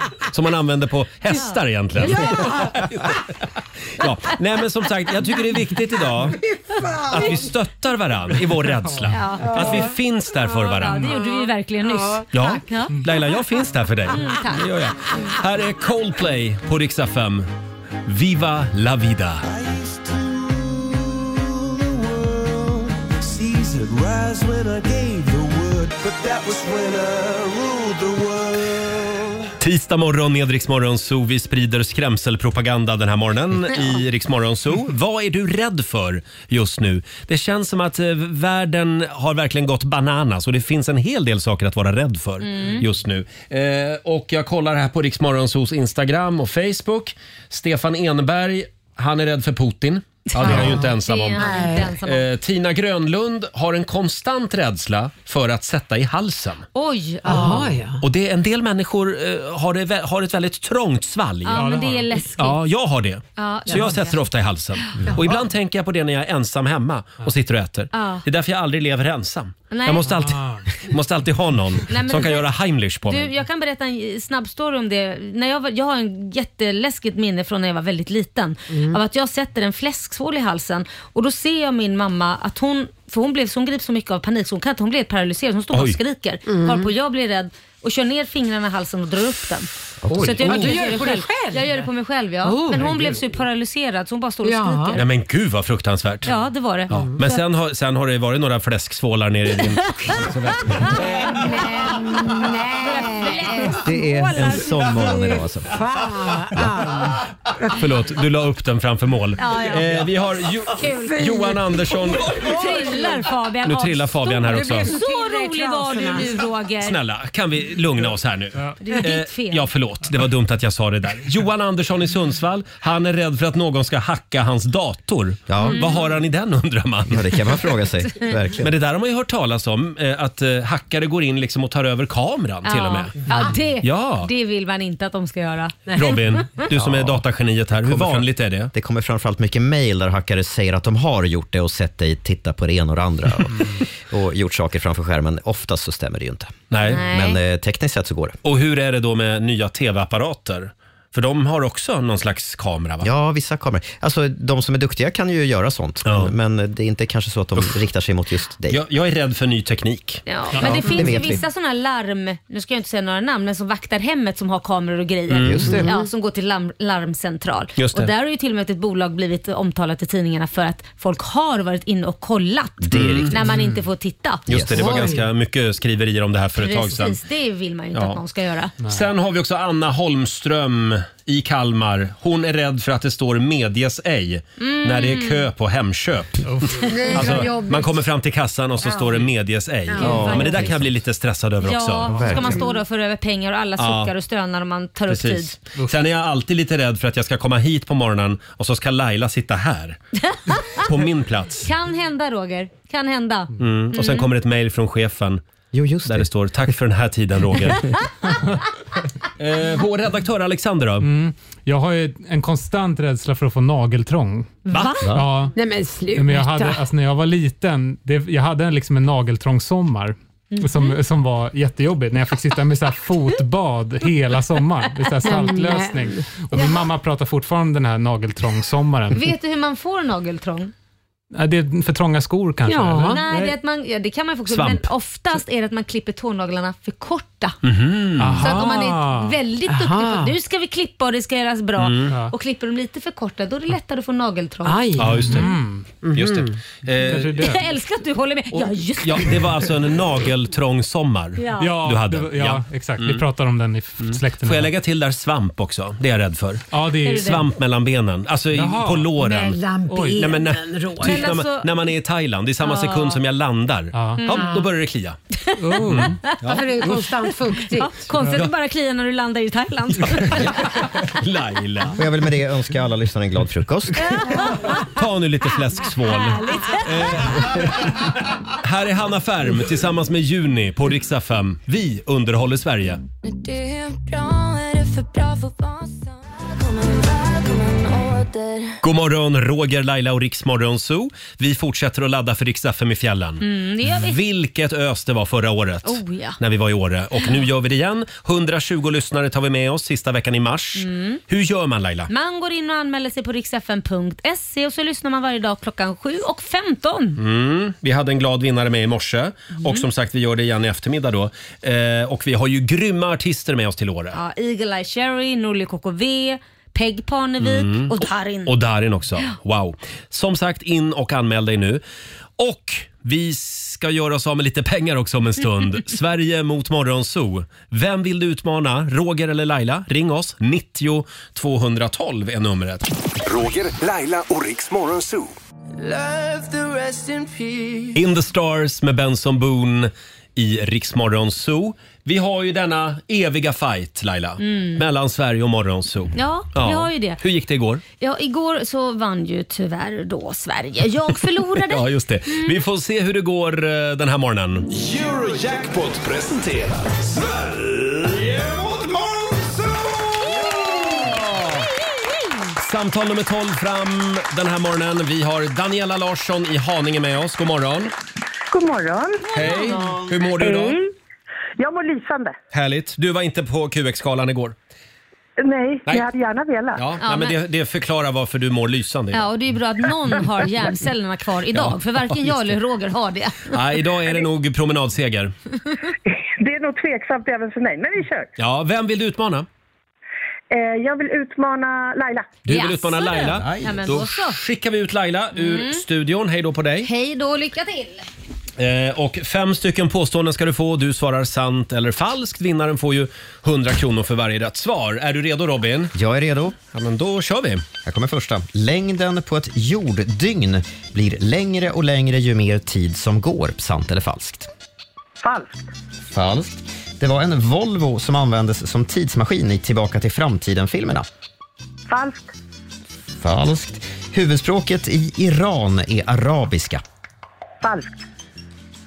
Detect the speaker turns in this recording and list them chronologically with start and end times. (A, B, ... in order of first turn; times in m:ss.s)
0:00.3-0:03.2 A
0:01.3-0:02.4 B
0:02.0-0:02.8 C
0:04.0-0:06.4 A
0:06.7-0:07.2 C
0:07.1-0:11.2 A
0:09.1-0:09.9 B
0:09.4-0:09.9 C
0:10.4-0:13.0 B
0:11.2-0:12.6 C
0:12.3-0:17.5 A
0:14.1-0:14.7 B
0:18.1-0:19.4 A
0:19.4-0:29.5 D
0:29.6-0:56.6 A
0:33.7-0:34.0 B
0:42.4-0:42.8 B
0:50.3-0:52.2 B
0:50.4-0:51.9 C
0:56.7-0:57.7 B
0:57.2-0:58.0 C
0:58.0-1:13.3 A
1:01.4-1:02.6 B
1:01.5-1:02.1 E
1:03.4-1:04.2 B
1:07.9-1:08.2 B
1:09.7-1:10.1 B
1:10.1-1:10.7 E
1:11.8-1:12.4 B
1:13.1-1:35.0 B
1:18.7-1:19.0 C
1:25.7-1:26.0 A
1:26.4-1:26.9 C
1:30.0-1:30.6 F
1:30.2-1:31.8 C
1:32.4-1:33.0 C
1:34.4-1:35.0 C
1:34.9-1:36.3 A
1:36.2-1:37.4 B
1:36.9-1:41.1 A
1:36.9-1:37.2 C
1:40.0-1:45.4 B
1:40.9-1:47.8 C
1:43.8-1:45.7 F
1:46.6-1:46.9 F
1:47.7-1:52.3 A
1:49.4-1:49.9 B
1:50.7-1:51.6 B
1:52.3-1:57.0 B
1:52.5-1:53.2 C
1:53.6-1:55.0 A
1:54.4-1:56.4 C
1:56.8-2:07.5 A
1:58.8-1:59.7 B
2:05.5-2:05.8 F
2:05.6-2:05.9 B
2:07.1-2:08.7 F
2:08.0-2:08.3 B
2:08.6-2:13.3 A
2:12.6-2:16.7 B
2:13.3-2:13.5 C
2:13.8-2:14.3 A
2:16.0-2:18.7 A
2:16.8-2:17.2 F
2:17.8-2:28.4 F
2:26.7-2:27.0 A
2:26.8-2:27.4 B
2:28.4-2:33.1 A
2:33.0-2:38.8 F
2:36.0-2:36.3 A
2:38.7-2:41.3 A
2:40.2-2:54.4 B
2:40.5-2:40.8 E
2:40.6-2:41.4 F
2:45.3-2:45.9 A
2:45.4-2:46.0 F
2:47.8-2:48.1 A
2:52.8-2:53.4 F
2:52.9-2:53.3 A
2:54.5-2:55.0 F
2:54.5-2:57.2 A
2:54.8-2:55.2 C
2:56.6-2:58.7 B
2:57.9-2:58.2 A
2:58.9-3:12.2 A
3:04.6-3:05.4 B
3:06.4-3:07.3 E
3:06.8-3:08.0 C
3:08.8-3:09.2 C
3:09.9-3:10.6 C
3:10.0-3:10.7 F
3:10.0-3:10.7 B
3:11.6-3:15.5 B
3:12.2-3:12.6 F
3:13.8-3:14.1 A
3:15.1-3:20.0 A
3:20.3-3:20.9 B
3:20.8-3:21.7 A
3:21.6-3:24.2 B
3:23.6-3:25.4 A
3:25.7-3:26.3 F
3:26.0-3:27.9 A
3:29.4-3:31.1 A
3:31.0-3:34.5 E
3:34.7-3:35.1 B
3:35.1-3:35.5 E
3:35.5-3:36.8 C
3:36.1-3:49.3 E
3:40.5-3:40.9 B
3:45.2-3:46.2 C
3:45.2-3:45.8 B
3:49.1-3:50.7 B
3:51.3-3:53.5 E
3:52.6-3:53.2 C
3:53.0-3:57.6 B
3:54.5-3:54.9 A
3:57.6-3:58.5 A
3:58.2-3:59.4 E
3:58.4-4:04.9 B
3:59.6-4:00.4 C
4:01.8-4:02.1 A
4:02.1-4:02.3 E
4:04.6-4:05.5 C
4:05.0-4:05.5 A
4:05.2-4:05.9 E
4:06.0-4:06.5 C
4:06.1-4:07.6 A
4:07.0-4:07.6 E
4:07.4-4:09.5 B
4:08.5-4:13.2 A
4:11.4-4:11.7 B
4:11.6-4:14.7 E
4:14.0-4:19.6 A
4:16.7-4:17.4 E
4:17.0-4:17.4 B
4:18.5-4:19.1 E
4:19.1-4:21.3 C
4:19.9-4:20.2 E
4:20.2-4:25.2 A
4:21.0-4:21.7 B
4:22.6-4:23.2 B
4:23.9-4:24.2 E
4:24.2-4:24.5 B
4:24.3-4:24.7 C
4:25.3-4:26.4 B
4:25.6-4:26.2 E
4:25.9-4:26.6 A
4:26.4-4:28.0 C
4:27.7-4:31.0 B
4:30.2-4:32.0 A
4:31.9-4:34.3 F
4:34.0-4:34.9 B
4:34.7-4:43.0 A
4:36.0-4:37.3 B
4:43.2-4:48.7 G
4:48.8-5:02.1 A
4:53.4-4:54.2 B
4:55.8-4:56.4 B
5:00.8-5:01.2 B
5:02.1-5:07.2 B
5:07.2-5:14.2 A
5:09.6-5:09.8 B
5:14.1-5:18.5 B
5:17.4-5:21.8 A
5:22.4-5:32.9 A
5:33.2-5:35.3 H
5:35.8-5:38.0 D
5:37.9-5:47.8 A
5:44.4-5:44.8 B
5:46.1-5:47.2 B
5:48.0-5:52.6 B
5:51.5-5:54.7 A
5:54.7-5:59.0 H
5:58.5-5:59.5 D
6:02.6-6:07.9 A
6:08.5-6:09.3 I
6:09.3-6:09.8 B
6:09.3-6:10.8 A
6:10.4-6:10.9 I
6:11.6-6:12.4 I
6:12.5-6:14.5 A
6:15.4-6:16.8 I
6:16.7-6:19.3 A
6:17.0-6:17.4 B
6:19.1-6:23.6 B
6:21.5-6:22.5 A
6:23.5-6:25.3 A
6:26.4-6:28.3 I
6:28.4-6:29.5 A
6:30.5-6:32.4 I
6:32.4-6:36.9 A
6:32.4-6:34.4 B
6:35.4-6:35.8 B
6:36.8-6:38.1 B
6:38.6-6:45.9 A
6:45.9-6:46.6 F
6:46.7-6:47.6 A
6:47.8-6:54.5 F
6:55.2-6:55.6 I
6:56.1-7:01.0 F
7:01.9-7:02.3 I
7:03.2-7:06.8 F
7:07.6-7:08.0 I